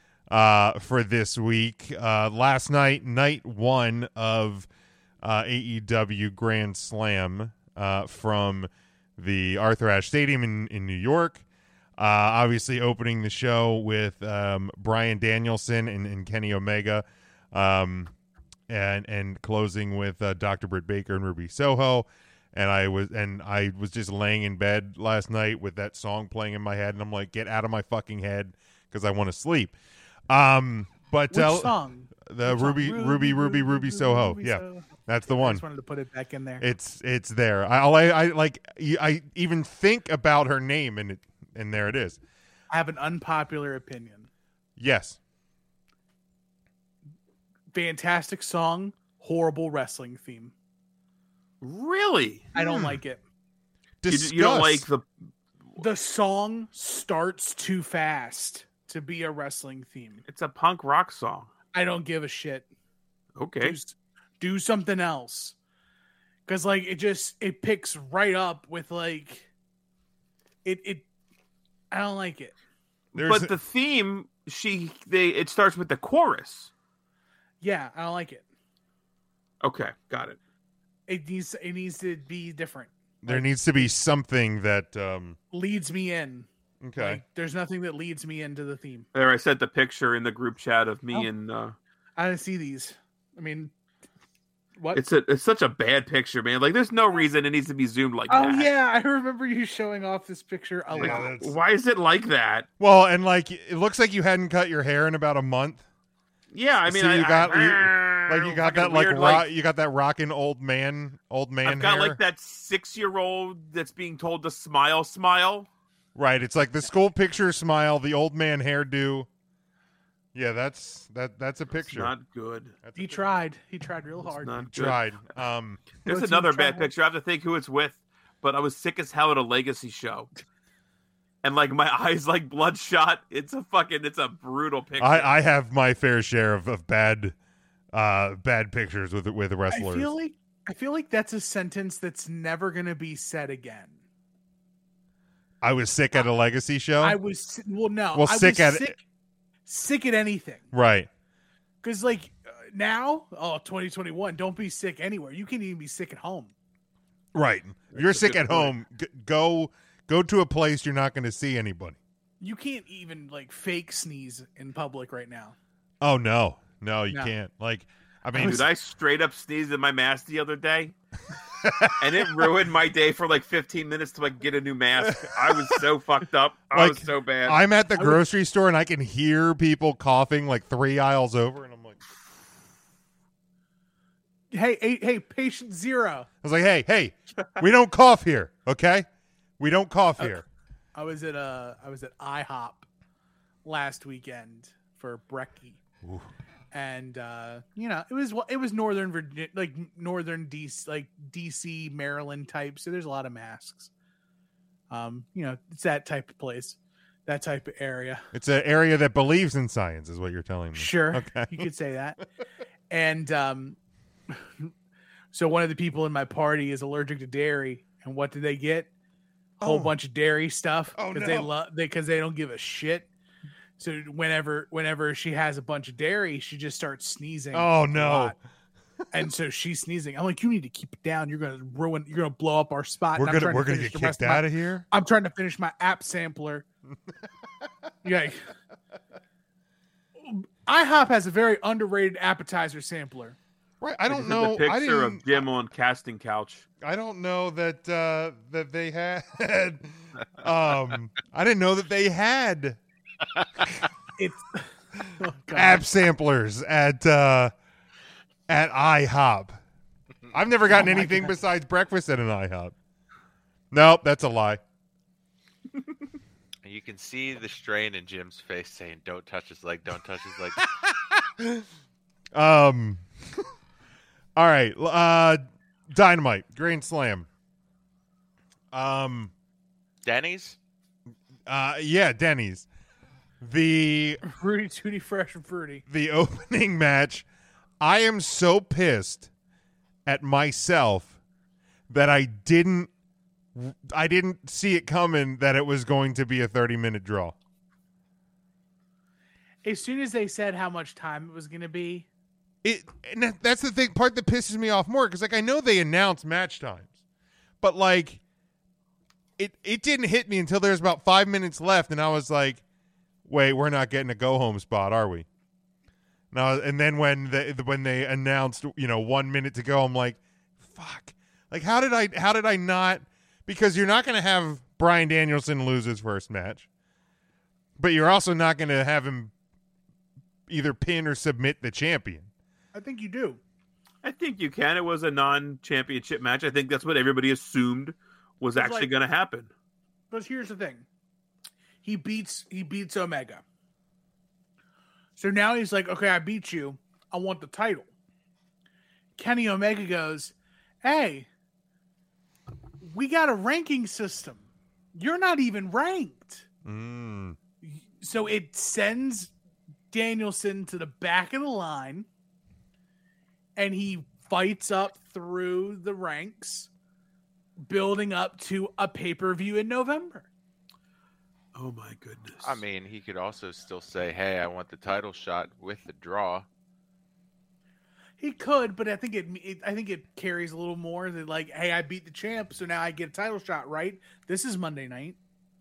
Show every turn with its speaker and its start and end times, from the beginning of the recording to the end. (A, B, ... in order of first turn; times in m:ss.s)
0:00.3-0:04.7 A
0:05.2-0:11.4 A
0:12.0-0:18.1 A
0:18.7-0:29.8 A
0:30.3-0:35.6 A
0:31.3-0:36.7 B
0:36.6-0:42.2 A
0:42.7-0:44.3 B
0:44.8-0:45.2 A
0:47.7-0:50.5 B
0:51.6-0:53.0 C
0:52.6-0:53.2 B
0:54.0-0:54.9 A
0:54.1-0:55.1 C
0:55.8-1:00.2 B
1:00.3-1:01.5 C
1:01.7-1:02.7 B
1:03.4-1:03.8 C
1:03.6-1:05.6 B
1:06.5-1:09.5 B
1:10.6-1:11.1 B
1:11.9-1:12.6 B
1:13.2-1:13.5 A
1:13.2-1:16.7 C
1:17.6-1:18.4 B
1:19.6-1:20.4 C
1:21.1-1:23.9 B
1:23.2-1:25.4 A
1:25.5-1:29.1 B
1:26.8-1:27.2 A
1:29.1-1:31.8 C
1:32.2-1:33.7 B
1:34.8-1:35.0 B
1:34.9-1:38.7 C
1:38.3-1:41.3 B
1:40.9-1:41.6 A
1:41.0-1:42.7 C
1:42.8-1:45.8 A
1:46.5-1:49.5 C
1:46.8-1:52.2 A
1:51.6-1:55.7 C
1:56.2-1:59.3 A
2:00.4-2:02.1 A
2:01.7-2:02.7 C
2:02.8-2:03.4 A
2:03.0-2:04.7 B
2:04.4-2:05.0 C
2:04.7-2:05.9 A
2:06.0-2:10.3 C
2:06.1-2:06.9 B
2:11.4-2:15.3 C
2:15.0-2:17.4 A
2:17.9-2:20.1 A
2:19.7-2:24.0 B
2:25.6-2:27.2 A
2:27.0-2:29.0 B
2:28.1-2:29.0 A
2:29.7-2:30.7 B
2:30.7-2:31.1 A
2:31.8-2:36.5 B
2:37.3-2:42.0 A
2:37.9-2:38.8 C
2:42.4-2:45.6 B
2:46.0-2:48.7 A
2:48.3-2:48.7 B
2:48.4-2:51.0 C
2:51.6-2:52.2 A
2:52.0-2:57.6 C
2:55.0-2:55.8 A
2:56.7-3:02.0 A
2:58.0-2:58.3 B
3:04.5-3:06.3 B
3:06.4-3:09.1 A
3:09.6-3:10.4 A
3:11.0-3:12.9 B
3:13.6-3:15.8 B
3:16.0-3:16.3 A
3:16.7-3:23.9 B
3:24.9-3:28.2 B
3:28.3-3:31.7 A
3:30.8-3:32.2 B
3:32.9-3:33.8 B
3:34.3-3:34.7 B
3:35.3-3:38.9 B
3:39.6-3:43.1 B
3:39.6-3:39.9 A
3:41.0-3:41.5 A
3:43.8-3:48.4 B
3:47.5-3:48.4 A
3:49.1-3:56.7 B
3:53.2-3:54.8 A
3:58.0-3:58.5 B
4:00.2-4:03.4 B
4:03.8-4:05.4 A
4:04.1-4:06.6 C
4:06.8-4:12.8 A
4:14.2-4:15.9 B
4:15.5-4:17.5 A
4:18.5-4:19.6 A
4:20.3-4:22.8 A
4:20.7-4:21.4 B
4:23.7-4:24.6 A
4:26.6-4:30.6 D
4:30.8-4:31.6 A
4:32.3-4:33.4 A
4:34.4-4:37.3 A
4:38.7-4:39.3 A
4:40.0-4:40.6 D
4:41.5-4:42.7 A
4:43.4-4:44.2 A
4:44.2-4:45.8 B
4:45.9-4:47.3 A
4:47.8-4:49.3 A
4:50.1-4:51.2 A
4:51.9-4:52.9 A
4:53.6-4:57.4 A
4:59.6-5:02.1 B
5:02.6-5:06.9 A
5:07.6-5:08.2 A
5:09.4-5:12.6 A
5:13.3-5:15.3 A
5:16.3-5:26.7 A
5:27.8-5:29.3 A
5:30.5-5:32.3 A
5:32.7-5:33.4 B
5:34.0-5:39.5 C
5:38.5-5:38.9 B
5:40.1-5:40.9 B
5:41.8-5:43.4 B
5:45.2-5:47.9 B
5:49.2-5:51.3 B
5:52.8-5:56.4 B
5:56.6-5:57.4 A
5:57.6-5:59.3 B
5:59.9-6:02.1 B
6:03.6-6:06.7 B
6:07.6-6:10.3 B
6:11.6-6:12.6 C
6:12.4-6:16.5 D
6:18.2-6:25.2 B